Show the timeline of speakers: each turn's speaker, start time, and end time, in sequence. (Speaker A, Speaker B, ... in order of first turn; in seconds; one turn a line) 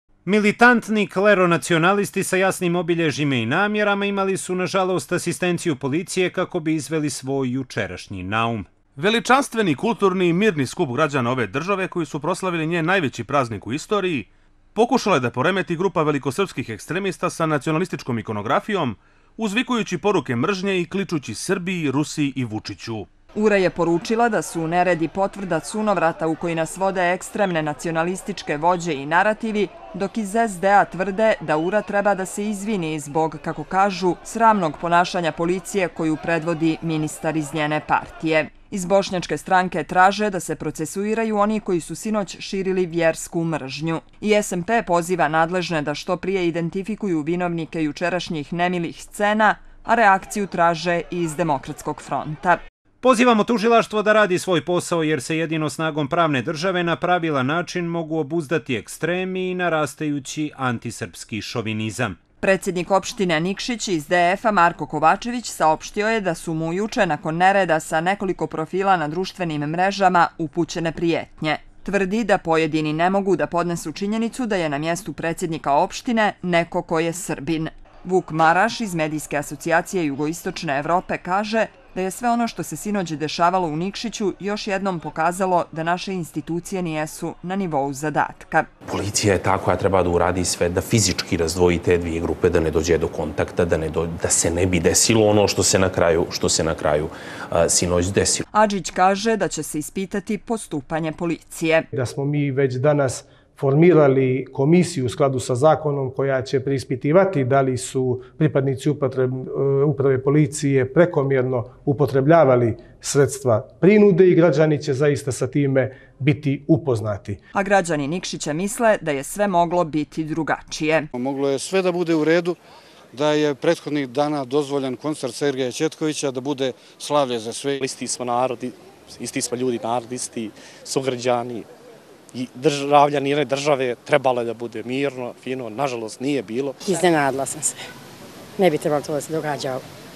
Speaker A: 0.3-8.7
Speaker B: 9.0-23.1
Speaker C: 23.4-52.6
Speaker A: 53.0-62.2
Speaker C: 62.4-88.7
Speaker D: 88.9-98.5
Speaker C: 98.5-101.9
Speaker E: 101.9-117.4
Speaker C: 117.5-121.1
Speaker F: 121.1-122.6
Speaker F: 123.1-127.8
Speaker G: 127.8-131.7
Speaker G: 132.3-136.9
Speaker H: 137.0-137.8
Speaker H: 138.6-139.8